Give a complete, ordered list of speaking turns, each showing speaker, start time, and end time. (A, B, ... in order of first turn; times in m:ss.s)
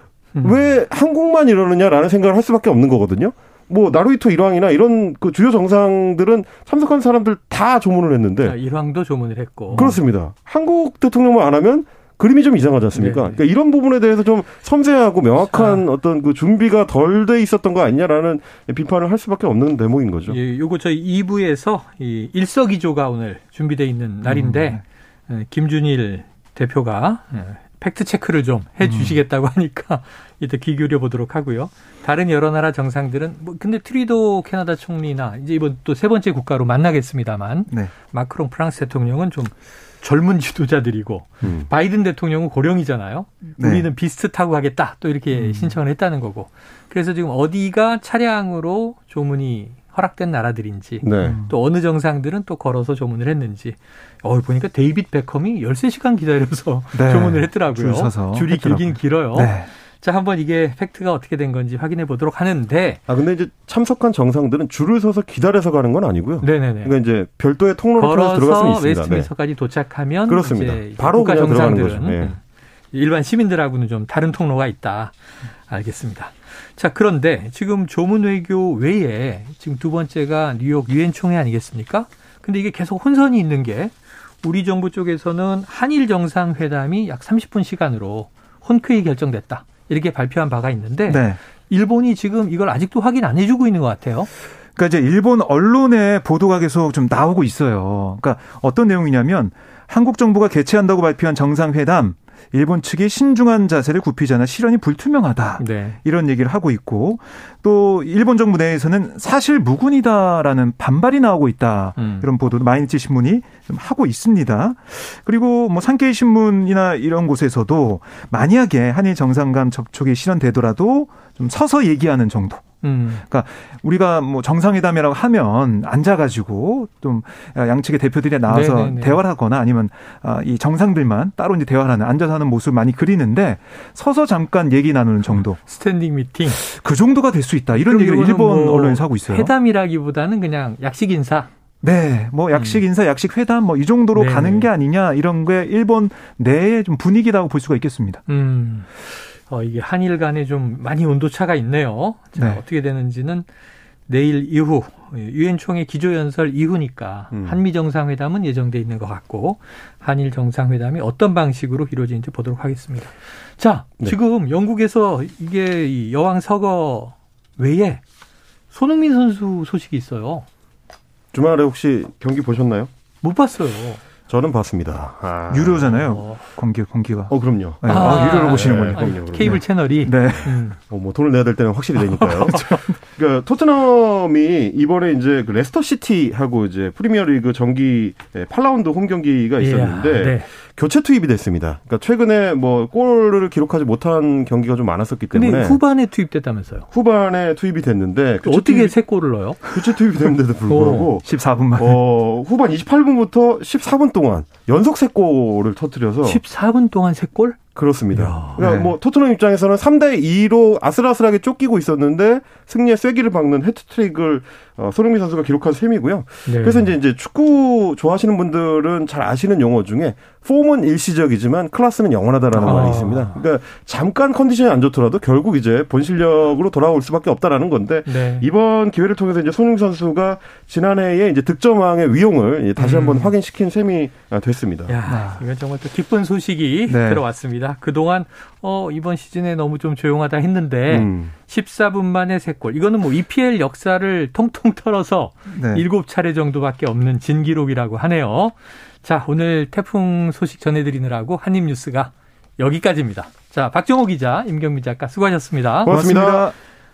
0:00.3-0:00.7 A
0:00.4-0:08.6 B
0:08.4-0:10.0 A
0:09.7-0:20.4 B
0:12.9-0:13.4 A
0:15.4-0:15.8 A
0:20.3-1:03.0 A
0:24.2-0:24.8 C
0:28.8-0:29.1 C
0:43.6-0:43.9 C
0:45.3-0:45.8 C
0:51.0-0:51.4 B
0:51.2-0:51.5 C
0:56.9-0:59.7 C
1:03.1-1:09.3 B
1:06.4-1:07.0 A
1:08.0-1:12.4 A
1:10.3-1:12.3 B
1:12.9-1:15.1 A
1:15.6-1:34.3 A
1:31.1-1:31.4 C
1:34.8-2:02.6 C
1:45.6-1:46.0 A
1:52.0-1:52.3 A
2:02.8-2:03.2 A
2:03.3-2:15.6 C
2:08.4-2:09.2 A
2:15.3-2:16.6 A
2:16.5-2:19.5 C
2:17.7-2:21.5 A
2:21.8-2:28.2 C
2:22.5-2:22.8 A
2:24.1-2:24.7 A
2:28.3-2:33.5 A
2:32.4-2:32.6 C
2:34.1-2:48.0 A
2:37.3-2:37.6 B
2:48.7-2:50.4 A
2:51.3-2:52.9 B
2:53.2-2:54.0 A
2:54.3-2:56.0 B
2:55.5-3:00.5 C
2:56.0-2:56.4 A
2:57.3-2:59.6 B
2:57.9-3:00.8 A
3:00.9-3:15.8 B
3:02.0-3:02.9 A
3:09.6-3:10.5 A
3:15.3-3:16.9 A
3:16.9-3:18.9 B
3:18.4-3:19.6 A
3:19.6-3:26.4 B
3:20.7-3:21.1 A
3:21.2-3:22.0 C
3:26.2-3:27.6 A
3:27.7-3:54.9 B
3:28.1-3:28.6 A
3:28.6-3:29.0 C
3:36.4-3:36.9 A
3:42.5-3:43.4 A
3:48.0-3:48.4 A
3:52.8-3:53.3 A
3:54.9-4:16.0 A
3:55.0-3:55.4 C
3:56.9-3:57.2 C
4:00.9-4:01.3 B
4:05.5-4:05.8 C
4:15.8-4:16.5 B
4:15.9-4:16.5 C